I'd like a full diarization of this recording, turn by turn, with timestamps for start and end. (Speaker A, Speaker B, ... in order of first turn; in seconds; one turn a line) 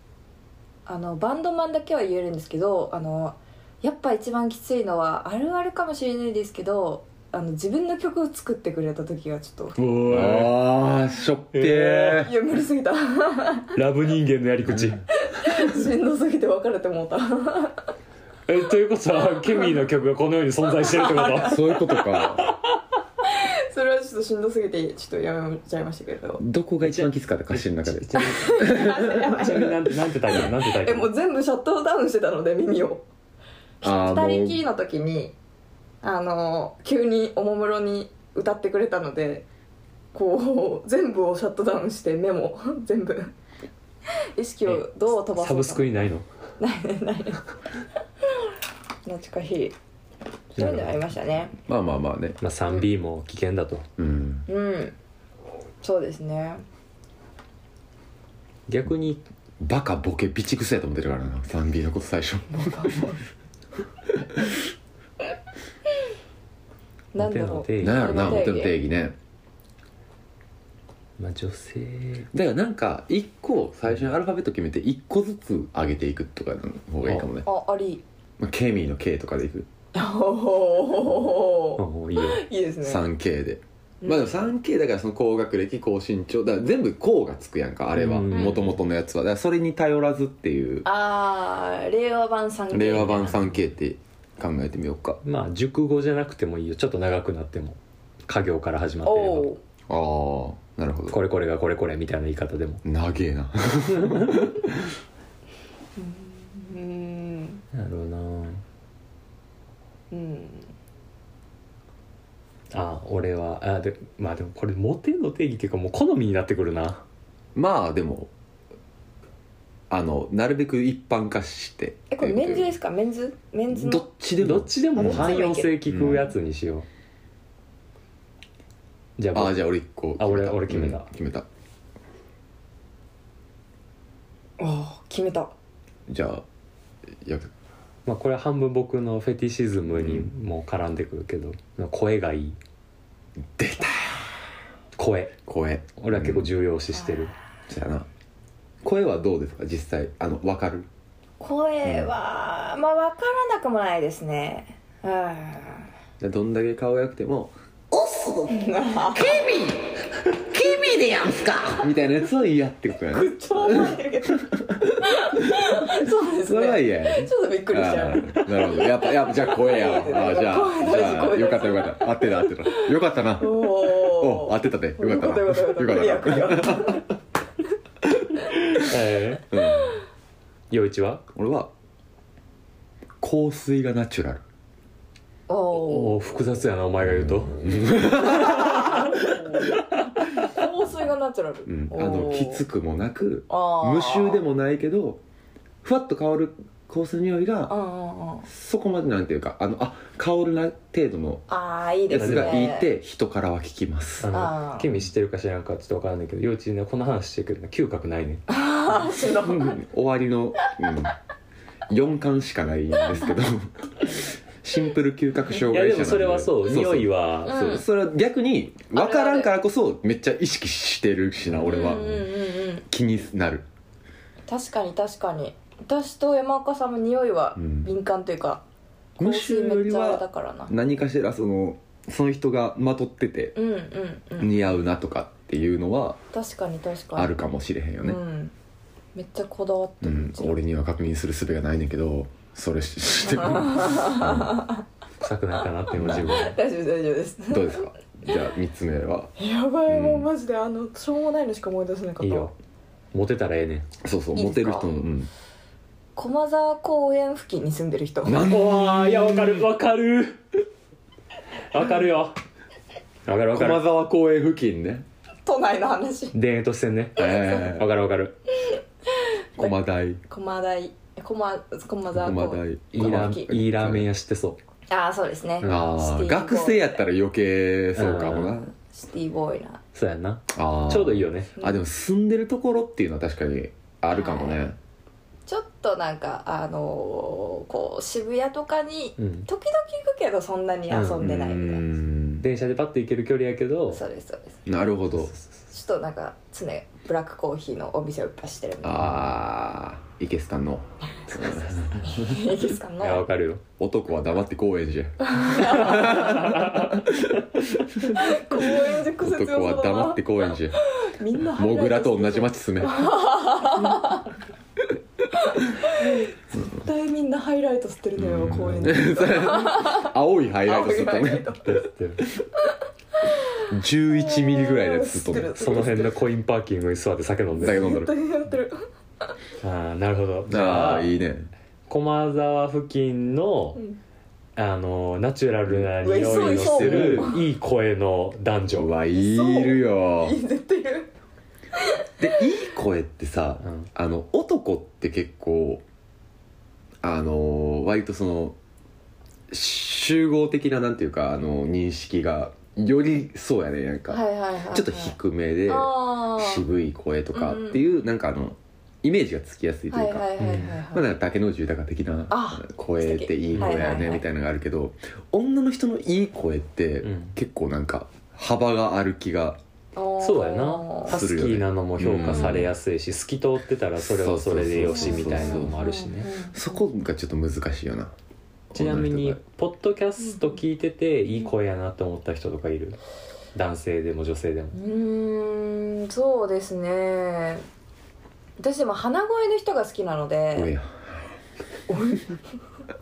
Speaker A: 0.9-9.8
Speaker B: 9.8-10.7
Speaker C: 10.1-12.3
Speaker B: 11.5-12.3
Speaker A: 12.2-13.7
Speaker B: 13.7-15.5
Speaker C: 14.7-15.0
Speaker A: 15.2-17.9
Speaker B: 18.5-21.6
Speaker A: 20.8-22.0
Speaker C: 21.4-22.5
Speaker A: 23.2-26.4
Speaker C: 26.4-29.5
Speaker B: 26.8-31.1
Speaker A: 28.2-33.0
Speaker A: 33.8-35.3
Speaker C: 33.8-34.6
Speaker A: 36.0-39.5
Speaker A: 40.1-43.3
Speaker A: 44.4-46.0
Speaker B: 44.6-46.2
Speaker A: 46.6-47.4
Speaker A: 49.1-49.8
Speaker A: 50.6-51.6
Speaker B: 50.6-50.9
Speaker C: 51.7-52.4
Speaker B: 52.4-53.9
Speaker C: 54.0-54.5
Speaker A: 54.5-55.0
Speaker A: 55.8-56.6
Speaker B: 58.7-59.2
Speaker C: 59.6-63.1
Speaker A: 62.5-63.2
Speaker C: 64.2-64.6
Speaker A: 67.1-68.8
Speaker B: 67.2-68.4
Speaker C: 67.8-69.2
Speaker B: 71.2-72.3
Speaker C: 72.3-77.5
Speaker A: 77.4-78.0
Speaker C: 78.4-79.7
Speaker A: 79.9-83.1
Speaker B: 81.8-82.4
Speaker C: 82.8-90.9
Speaker A: 84.0-84.4
Speaker B: 88.0-88.8
Speaker A: 88.3-88.6
Speaker A: 90.8-93.5
Speaker C: 92.7-95.2
Speaker B: 95.2-99.5
Speaker A: 99.0-99.6
Speaker C: 99.9-101.2
Speaker B: 101.1-102.8
Speaker C: 102.8-104.9
Speaker B: 104.0-104.3
Speaker A: 106.0-107.6
Speaker B: 107.7-108.6
Speaker A: 110.1-110.7
Speaker B: 112.7-117.0
Speaker C: 117.5-118.3
Speaker C: 119.9-122.8
Speaker A: 122.1-124.1
Speaker C: 123.7-126.2
Speaker B: 124.4-126.9
Speaker A: 125.0-125.8
Speaker B: 129.2-129.6
Speaker C: 129.3-131.5
Speaker B: 130.2-131.1
Speaker A: 134.6-135.5
Speaker C: 136.1-136.4
Speaker C: 137.2-137.5
Speaker B: 138.1-142.6
Speaker C: 140.0-140.3
Speaker C: 143.6-144.5
Speaker B: 145.0-145.3
Speaker C: 145.5-146.5
Speaker B: 146.0-147.3
Speaker C: 147.7-148.1
Speaker C: 148.8-150.9
Speaker A: 151.4-155.9
Speaker C: 151.8-152.1
Speaker C: 156.2-158.4
Speaker A: 158.1-159.4
Speaker C: 159.1-177.0
Speaker A: 163.1-177.1
Speaker B: 178.7-179.5
Speaker C: 179.5-180.0
Speaker B: 180.7-181.2
Speaker C: 181.3-181.7
Speaker C: 183.2-184.4
Speaker A: 185.5-186.2
Speaker B: 185.7-190.3
Speaker C: 187.0-189.1
Speaker A: 188.2-189.7
Speaker A: 190.3-192.6
Speaker C: 191.7-195.2
Speaker A: 193.5-194.4
Speaker C: 195.8-197.7
Speaker A: 197.7-198.5
Speaker C: 198.5-201.4
Speaker A: 201.5-202.9
Speaker C: 202.1-204.3
Speaker B: 202.2-202.7
Speaker B: 204.2-208.4
Speaker A: 204.3-204.9
Speaker A: 208.5-209.8
Speaker C: 209.2-211.1
Speaker C: 211.9-222.3
Speaker B: 215.7-217.6
Speaker A: 217.5-217.8
Speaker A: 218.9-219.5
Speaker A: 221.6-222.9
Speaker C: 222.9-223.7
Speaker A: 224.5-228.6
Speaker C: 227.6-227.9
Speaker A: 229.2-230.7
Speaker C: 229.2-233.6
Speaker A: 233.6-234.6
Speaker C: 234.4-236.2
Speaker A: 236.3-237.3
Speaker C: 237.2-238.2
Speaker A: 238.0-238.5
Speaker A: 239.2-240.6
Speaker C: 240.0-244.6
Speaker A: 243.2-244.8
Speaker B: 245.2-246.6
Speaker C: 245.9-246.4
Speaker A: 246.1-247.9
Speaker C: 247.5-249.3
Speaker A: 249.4-252.5
Speaker C: 249.9-250.3
Speaker B: 252.2-252.5
Speaker B: 253.1-253.9
Speaker C: 254.0-255.3
Speaker A: 254.3-254.9
Speaker A: 256.2-258.4
Speaker C: 258.2-259.6
Speaker B: 258.4-260.4
Speaker B: 261.7-262.4
Speaker B: 263.3-263.8
Speaker C: 263.5-265.1
Speaker A: 265.5-266.4
Speaker B: 266.3-268.4
Speaker C: 267.2-267.9
Speaker A: 267.2-267.8
Speaker A: 268.7-269.8
Speaker C: 269.6-270.2
Speaker A: 270.3-273.5
Speaker C: 272.1-274.1
Speaker B: 272.9-274.6
Speaker A: 274.9-277.0
Speaker B: 275.6-275.9
Speaker C: 275.6-278.7
Speaker B: 278.0-278.5
Speaker A: 278.3-279.8
Speaker B: 279.9-281.5
Speaker C: 280.5-284.8
Speaker A: 281.6-281.8
Speaker A: 284.1-284.7
Speaker A: 285.5-291.8
Speaker B: 289.2-289.5
Speaker B: 290.9-291.3
Speaker C: 291.2-292.4
Speaker B: 292.4-294.0
Speaker A: 293.9-294.6
Speaker C: 294.7-295.3
Speaker A: 295.7-299.2
Speaker C: 298.8-302.4
Speaker A: 301.2-303.3
Speaker B: 303.0-303.6
Speaker C: 303.8-310.8
Speaker A: 305.2-306.6
Speaker B: 305.9-307.0
Speaker A: 308.1-314.3
Speaker C: 311.6-313.2
Speaker A: 315.4-321.8
Speaker C: 318.2-321.5
Speaker B: 318.4-319.0
Speaker B: 321.6-322.2
Speaker A: 323.3-323.6
Speaker C: 323.7-325.5
Speaker A: 324.1-326.2
Speaker B: 325.6-327.9
Speaker A: 327.6-328.8
Speaker C: 327.6-328.1
Speaker B: 329.6-331.1
Speaker C: 330.5-331.5
Speaker B: 331.9-333.8
Speaker B: 334.6-338.9
Speaker C: 335.7-337.4
Speaker A: 336.0-337.4
Speaker C: 338.7-340.4
Speaker A: 339.1-341.1
Speaker A: 341.8-342.1
Speaker C: 342.2-345.8
Speaker B: 343.6-343.9
Speaker C: 347.0-348.6
Speaker C: 349.5-360.3
Speaker A: 354.1-355.2
Speaker A: 355.7-356.6
Speaker A: 357.3-357.8
Speaker A: 359.9-361.1
Speaker B: 360.4-360.8
Speaker C: 360.9-369.6
Speaker A: 362.3-364.2
Speaker B: 363.5-364.0
Speaker B: 367.0-367.4
Speaker A: 370.0-371.2
Speaker B: 370.2-376.3
Speaker C: 371.1-372.7
Speaker A: 372.3-372.6
Speaker C: 374.0-375.8
Speaker A: 374.9-376.8
Speaker C: 376.5-378.1
Speaker C: 378.7-379.4
Speaker B: 378.7-383.0
Speaker A: 380.3-380.6
Speaker B: 383.6-384.8
Speaker A: 384.7-387.6
Speaker A: 388.6-390.7
Speaker C: 390.5-391.3
Speaker A: 391.9-392.5